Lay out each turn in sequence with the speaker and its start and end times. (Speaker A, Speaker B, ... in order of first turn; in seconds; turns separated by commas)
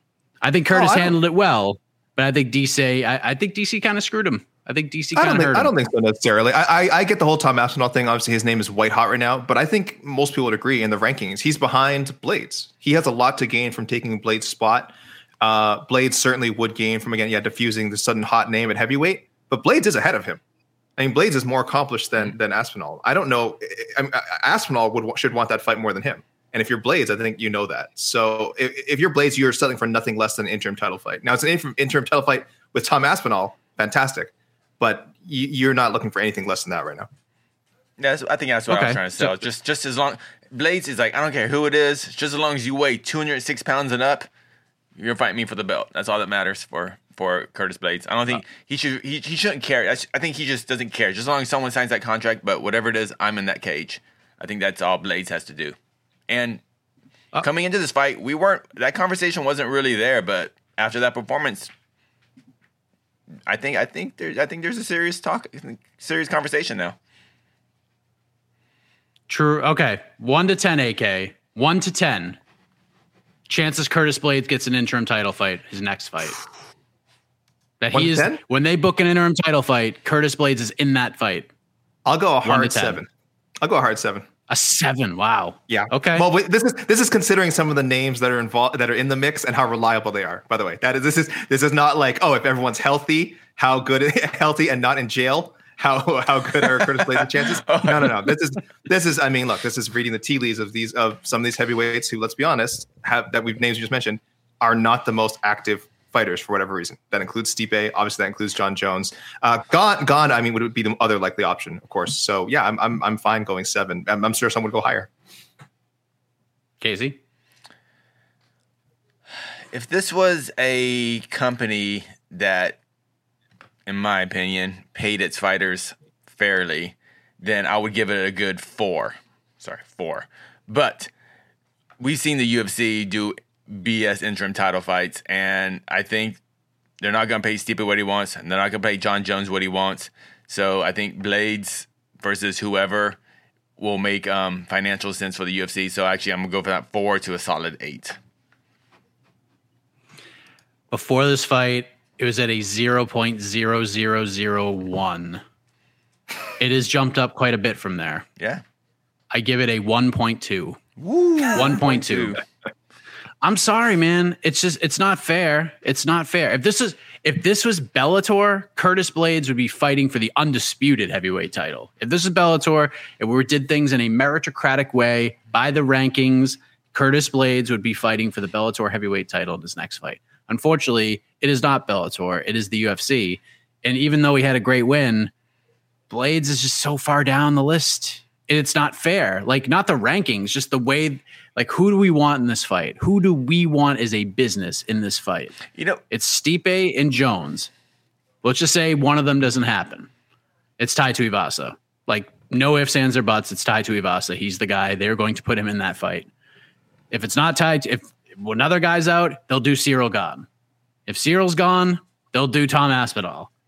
Speaker A: 0.4-5.7, Speaker B: 0.7-1.2, Speaker B: 5.2-20.4, Speaker B: 21.0-37.1, Speaker C: 38.0-44.3, Speaker A: 38.7-39.4, Speaker C: 45.0-55.8, Speaker C: 56.3-56.6, Speaker C: 57.4-61.7, Speaker C: 63.5-67.0, Speaker A: 69.3-72.4, Speaker A: 73.5-76.4, Speaker A: 77.8-81.5, Speaker B: 77.9-78.4, Speaker B: 82.1-83.1, Speaker A: 82.4-83.0, Speaker B: 83.6-84.3, Speaker A: 84.5-86.3, Speaker B: 85.7-115.1, Speaker C: 96.8-98.3, Speaker A: 116.8-117.2, Speaker C: 119.7-122.8, Speaker C: 123.9-131.1, Speaker C: 132.0-136.4, Speaker C: 137.0-143.2, Speaker C: 143.8-148.2, Speaker A: 150.9-155.4, Speaker A: 156.6-158.2, Speaker A: 159.3-160.8, Speaker C: 161.0-162.4, Speaker A: 161.5-162.4, Speaker A: 163.4-185.3, Speaker A: 186.1-197.7, Speaker C: 195.8-196.0, Speaker A: 198.4-200.1, Speaker A: 200.8-206.3, Speaker A: 207.1-210.5, Speaker A: 211.1-213.5